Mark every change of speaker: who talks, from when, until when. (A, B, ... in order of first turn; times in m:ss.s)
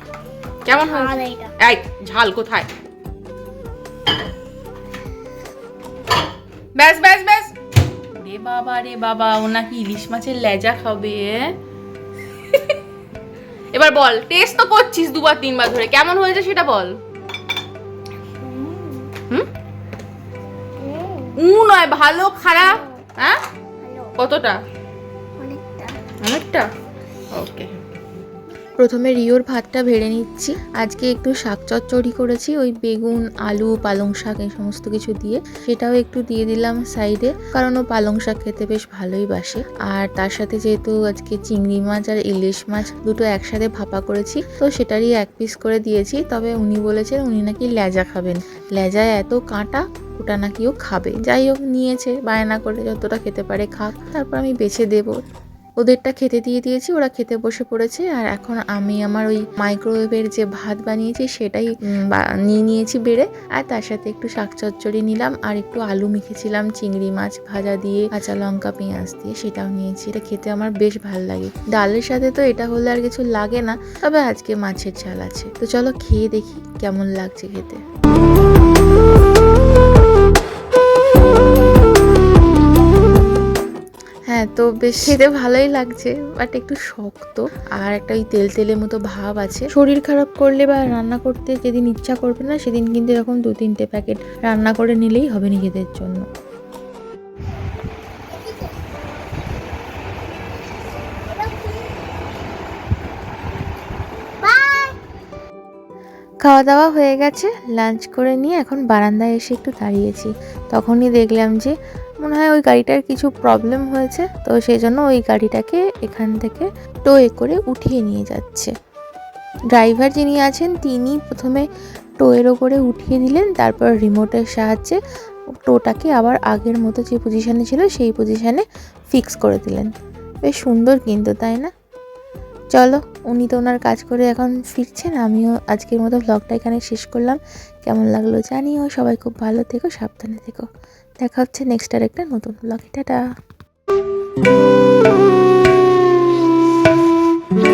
0:00.6-0:02.7 A
0:00.9-0:01.5 B
0:06.8-0:07.5 A
0:08.1-0:11.5 A
0:12.5-0:12.8 A
0:13.7-0:17.0 A
0:18.4-0:19.1 B
0:20.8-0:21.4 B
0:21.4-0:23.4 A
0:23.8-0:24.1 B
0:24.2-0:24.6 A
0:25.4-0:26.0 B
0:26.2-0:26.7 A
0:27.3-0:27.7 A
0:28.8-0:55.2 C
0:55.8-1:17.8 C
1:24.3-1:36.2 C
1:38.3-1:39.0 B
1:41.3-1:42.0 B
1:44.4-1:45.0 B
1:46.4-1:58.7 C
1:59.7-2:01.6 C
2:02.2-2:05.0 C
2:05.5-2:09.9 C
2:10.4-2:11.7 C
2:12.7-2:20.7 C
2:21.2-2:23.2 C